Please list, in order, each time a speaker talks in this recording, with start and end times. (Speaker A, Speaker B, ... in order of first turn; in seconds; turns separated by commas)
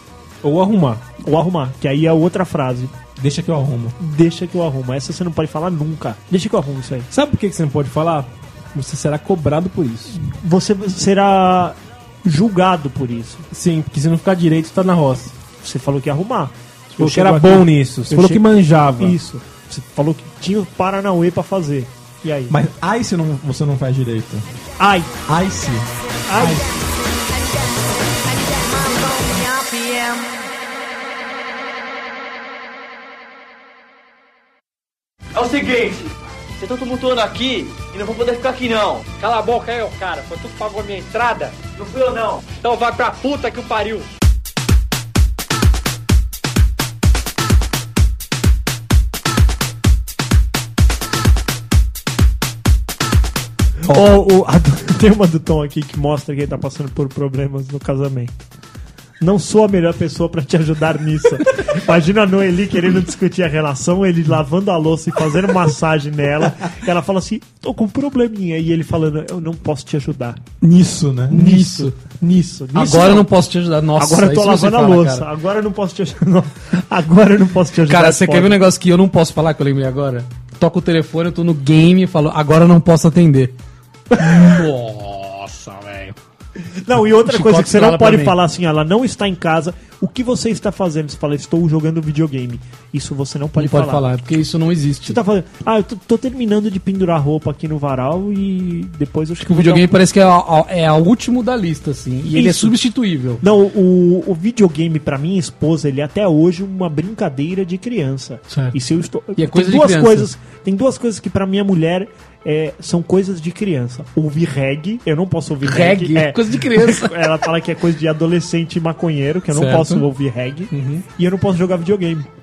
Speaker A: 0.4-1.1, Speaker B: 1.2-2.9, Speaker C: 3.2-4.0, Speaker B: 4.0-7.1, Speaker A: 7.1-10.2, Speaker B: 10.2-13.5, Speaker A: 13.5-15.3, Speaker B: 15.6-22.6, Speaker A: 17.0-19.2, Speaker C: 22.5-24.5, Speaker B: 24.8-25.1, Speaker C: 25.3-26.7, Speaker B: 26.3-26.7, Speaker D: 28.3-30.4, Speaker D: 35.4-44.1, Speaker B: 53.8-58.3, Speaker B: 59.2-70.4, Speaker C: 70.6-71.5, Speaker B: 71.3-73.3, Speaker E: 71.3-71.9, Speaker E: 72.8-75.3, Speaker B: 74.0-78.6, Speaker E: 77.9-83.5, Speaker E: 84.2-86.2, Speaker B: 84.2-84.6, Speaker B: 86.8-94.0, Speaker E: 87.2-88.4, Speaker E: 93.6-95.2, Speaker B: 95.0-100.0, Speaker E: 99.4-103.4, Speaker B: 102.3-102.8, Speaker B: 103.4-122.3, Speaker E: 108.5-108.8, Speaker E: 109.4-110.3, Speaker E: 115.6-117.3, Speaker E: 119.5-120.1, Speaker E: 120.7-121.0